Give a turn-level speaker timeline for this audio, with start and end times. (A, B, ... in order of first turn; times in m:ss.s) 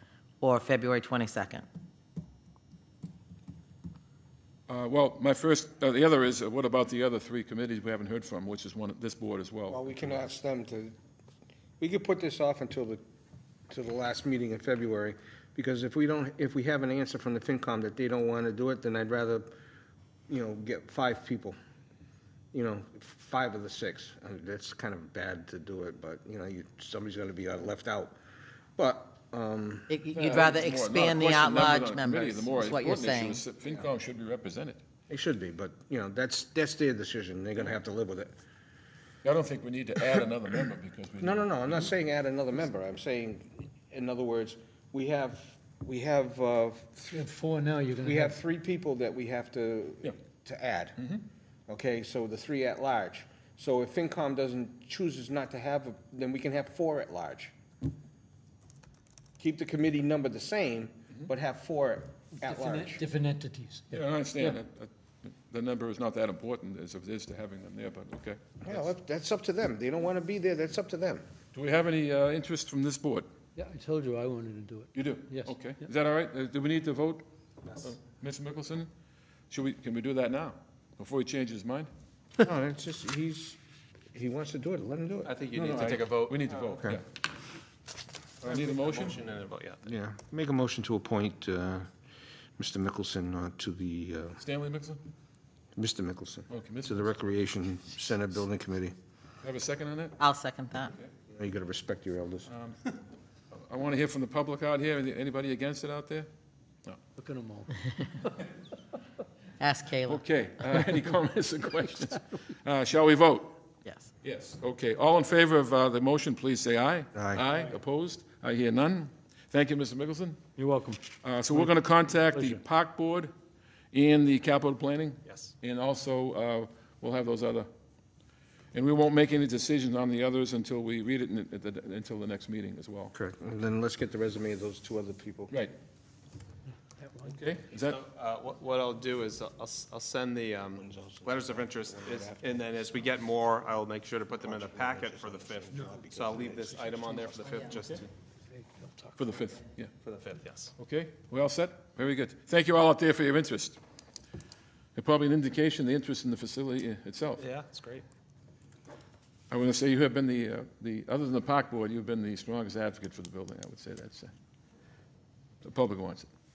0:00.4-0:01.7 A
0:04.7-0:09.8 B
0:09.7-0:11.0 C
0:11.8-0:13.0 C
0:13.7-0:19.5 C
0:20.3-0:21.6 C
0:22.5-0:28.2 C
0:28.8-0:29.9 C
0:29.9-0:33.4 A
0:30.1-0:34.8 B
0:35.1-0:38.4 C
0:39.2-0:41.9 B
0:41.2-0:47.3 C
0:47.1-0:48.4 D
0:48.0-0:51.0 C
0:51.0-0:51.2 B
0:51.7-0:57.5 C
0:59.4-1:03.0 C
1:02.4-1:04.6 D
1:03.9-1:08.8 B
1:08.6-1:11.2 C
1:11.5-1:13.3 B
1:13.6-1:15.5 D
1:14.9-1:17.2 B
1:17.8-1:18.9 B
1:19.5-1:21.9 B
1:22.4-1:23.6 C
1:24.1-1:25.6 C
1:25.2-1:26.9 E
1:25.6-1:27.0 B
1:28.4-1:29.8 E
1:28.4-1:29.2 B
1:29.8-1:31.9 C
1:32.6-1:34.4 C
1:34.4-1:35.0 B
1:35.8-1:38.9 C
1:36.5-1:37.1 B
1:39.4-1:40.2 B
1:40.2-1:40.9 A
1:41.3-1:42.5 C
1:42.5-1:42.8 B
1:43.6-1:46.3 B
1:47.2-1:48.2 D
1:49.6-1:50.2 A
1:50.0-1:53.6 B
1:53.8-1:54.1 A
1:54.2-2:00.4 B
1:57.1-1:57.4 C
2:00.6-2:01.1 D
2:01.2-2:03.3 B
2:02.3-2:02.6 D
2:03.9-2:07.7 B
2:05.2-2:05.5 E
2:08.7-2:13.1 B
2:13.2-2:15.5 C
2:17.0-2:17.3 D
2:17.3-2:18.0 B
2:17.9-2:28.1 E
2:20.7-2:23.1 C
2:24.4-2:27.8 C
2:28.5-2:29.3 D
2:29.2-2:29.9 B
2:30.0-2:30.7 E
2:30.8-2:33.8 B
2:35.0-2:37.4 B
2:37.4-2:38.0 E
2:39.5-2:44.3 B
2:45.6-2:46.3 B